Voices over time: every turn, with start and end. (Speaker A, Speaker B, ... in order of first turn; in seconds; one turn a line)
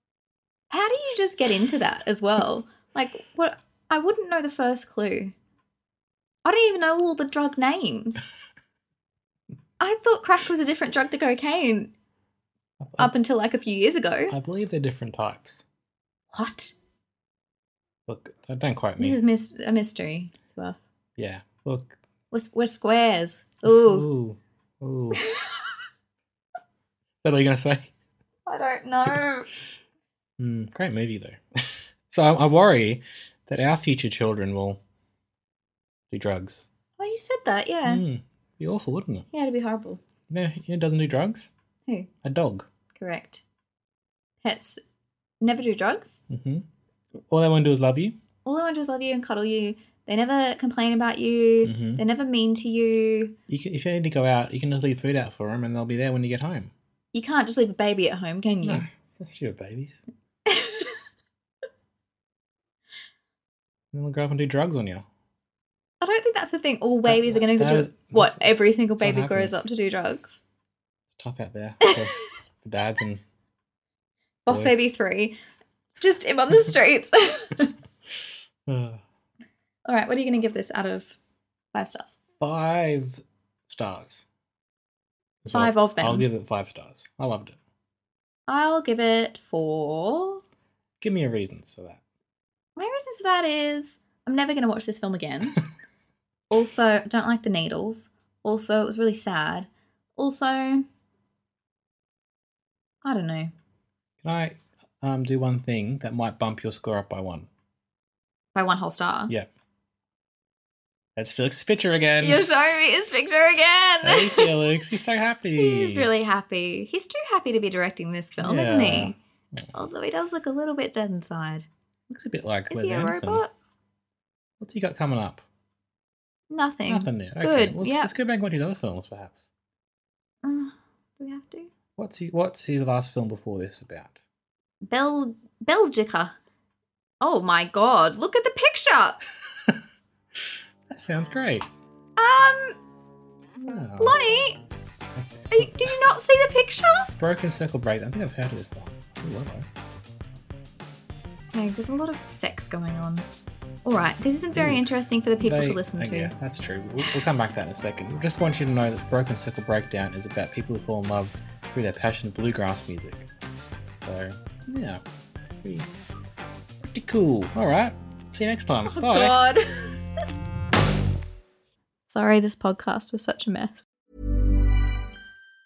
Speaker A: 0.7-5.3
Speaker A: 6.4-8.3
Speaker A: 9.8-11.9
Speaker B: 12.8-13.1
Speaker A: 13.0-14.3
Speaker B: 14.3-15.6
Speaker A: 16.3-16.7
Speaker B: 18.1-19.2
Speaker A: 19.0-20.8
Speaker B: 21.2-22.0
Speaker A: 22.3-24.1
Speaker B: 23.6-25.2
Speaker B: 27.2-27.9
Speaker A: 28.4-29.5
Speaker B: 30.4-34.8
Speaker B: 36.1-36.7
Speaker A: 37.0-38.0
Speaker B: 37.8-39.3
Speaker A: 39.3-40.0
Speaker B: 40.3-41.5
Speaker B: 42.2-42.7
Speaker A: 42.9-43.4
Speaker A: 44.4-44.8
Speaker A: 45.4-46.2
Speaker B: 46.3-46.6
Speaker B: 47.3-48.1
Speaker A: 48.4-53.4
Speaker B: 51.6-52.0
Speaker B: 53.5-56.7
Speaker A: 57.1-58.9
Speaker B: 58.6-60.0
Speaker A: 60.5-60.9
Speaker B: 63.9-65.0
Speaker A: 66.0-70.4
Speaker B: 67.0-69.6
Speaker B: 71.1-73.2
Speaker A: 74.4-75.4
Speaker B: 74.5-74.7
Speaker A: 76.0-77.7
Speaker B: 78.7-79.0
Speaker A: 79.8-81.1
Speaker A: 81.7-82.2
Speaker B: 82.4-84.2
Speaker B: 85.4-87.5
Speaker A: 85.5-86.3
Speaker A: 88.5-90.4
Speaker B: 91.0-92.0
Speaker A: 92.8-95.6
Speaker A: 96.5-100.8
Speaker A: 103.0-103.5
Speaker B: 104.2-107.5
Speaker A: 108.5-109.3
Speaker B: 111.2-112.4
Speaker A: 112.2-114.8
Speaker B: 114.0-116.1
Speaker A: 115.5-119.2
Speaker B: 118.4-119.7
Speaker A: 119.7-121.7
Speaker B: 122.1-123.4
Speaker A: 122.7-123.5
Speaker B: 124.6-125.4
Speaker A: 126.5-128.1
Speaker B: 126.9-129.5
Speaker A: 130.4-131.7
Speaker B: 132.0-134.2
Speaker A: 134.8-136.3
Speaker A: 137.2-139.2
Speaker B: 140.9-141.7
Speaker A: 142.2-142.8
Speaker B: 143.6-144.2
Speaker A: 144.0-144.6
Speaker B: 145.2-145.9
Speaker A: 145.5-147.1
Speaker B: 147.2-149.7
Speaker A: 151.5-153.2
Speaker A: 153.8-156.3
Speaker B: 154.5-154.8
Speaker B: 155.4-163.3
Speaker B: 164.0-165.0
Speaker B: 165.6-165.9
Speaker B: 166.8-169.4
Speaker A: 168.8-170.0
Speaker A: 172.1-173.8